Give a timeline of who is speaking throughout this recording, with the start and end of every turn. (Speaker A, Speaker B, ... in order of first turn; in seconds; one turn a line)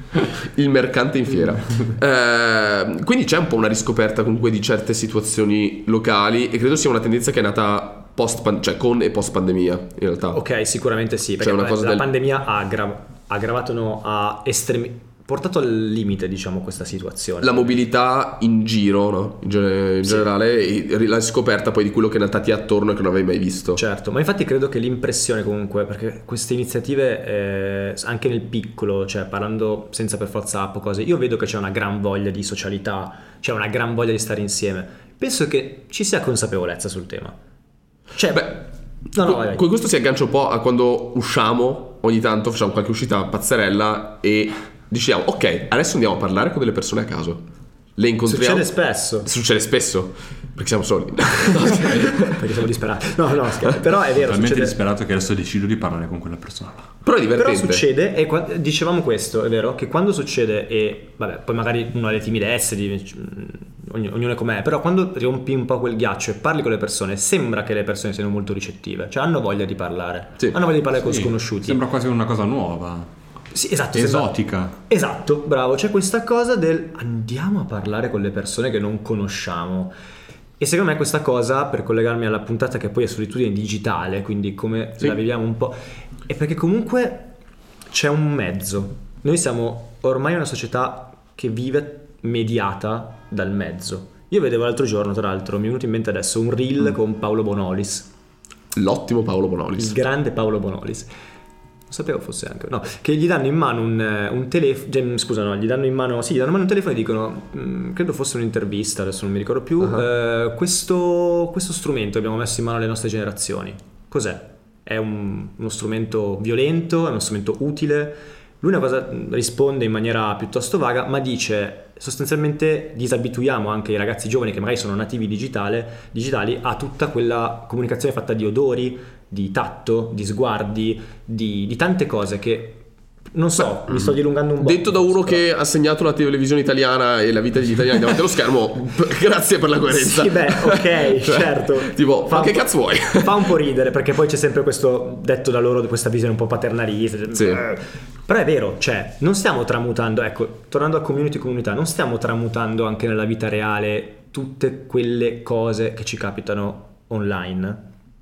Speaker A: 0.4-10.4
Speaker B: 10.3-17.8
Speaker A: 11.4-12.1
Speaker A: 17.4-23.8
Speaker B: 23.8-37.4
Speaker B: 38.1-39.6
Speaker A: 38.3-38.6
Speaker A: 39.1-47.4
Speaker A: 48.0-52.5
Speaker B: 48.3-49.3
Speaker B: 51.5-54.8
Speaker C: 54.2-56.9
Speaker A: 57.0-57.9
Speaker B: 57.4-71.8
Speaker C: 71.0-73.1
Speaker B: 73.5-79.9
Speaker C: 73.9-74.8
Speaker B: 80.6-87.3
Speaker B: 87.9-98.1
Speaker A: 98.7-100.0
Speaker B: 99.8-101.1
Speaker B: 101.9-135.4
Speaker A: 133.9-143.5
Speaker B: 139.9-157.8
Speaker A: 147.4-147.6